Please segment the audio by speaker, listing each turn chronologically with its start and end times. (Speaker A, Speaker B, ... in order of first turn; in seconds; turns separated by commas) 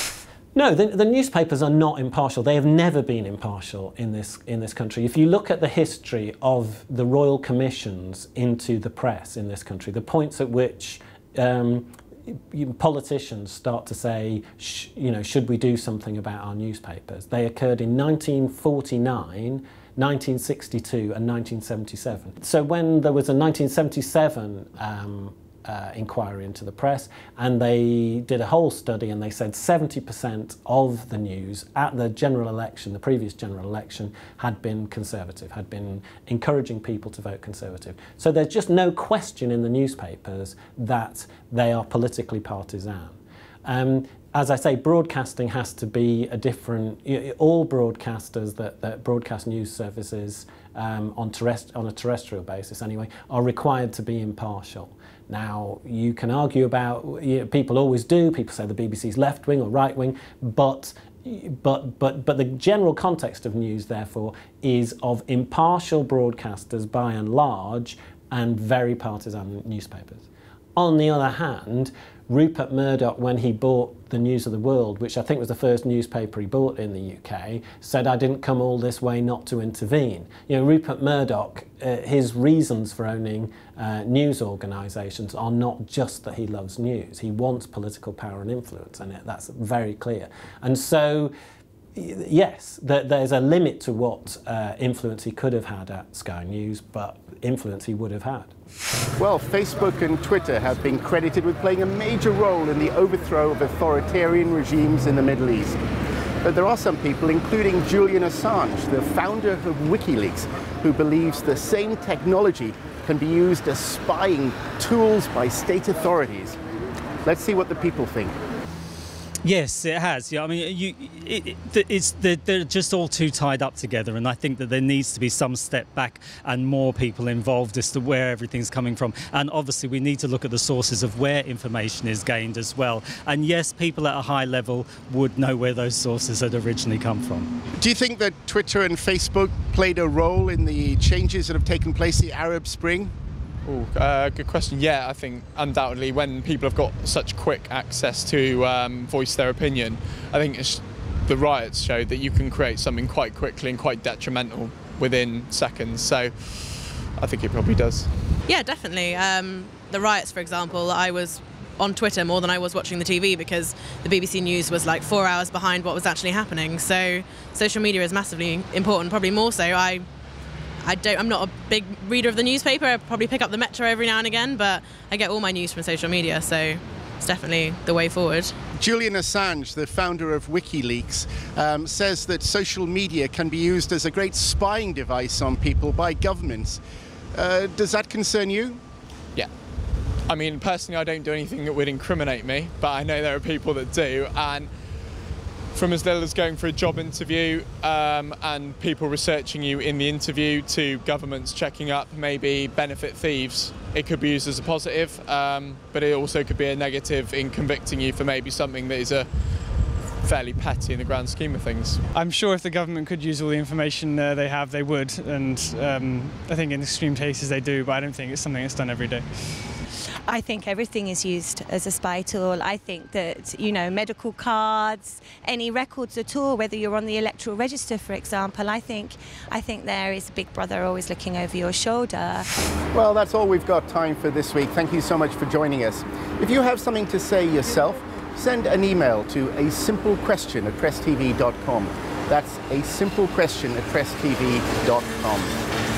Speaker A: 0.5-91.3, Speaker A: 92.0-98.5, Speaker B: 99.2-105.8, Speaker B: 106.4-116.6, Speaker B: 117.2-118.4, Speaker C: 119.4-137.5, Speaker B: 137.8-143.1, Speaker D: 143.7-158.2, Speaker E: 158.5-170.1, Speaker E: 170.8-178.6, Speaker B: 178.8-186.8, Speaker B: 187.3-188.8, Speaker D: 190.3-194.7, Speaker D: 195.7-209.3, Speaker D: 210.2-212.0, Speaker F: 212.1-219.7, Speaker G: 220.3-232.5, Speaker B: 232.9-245.6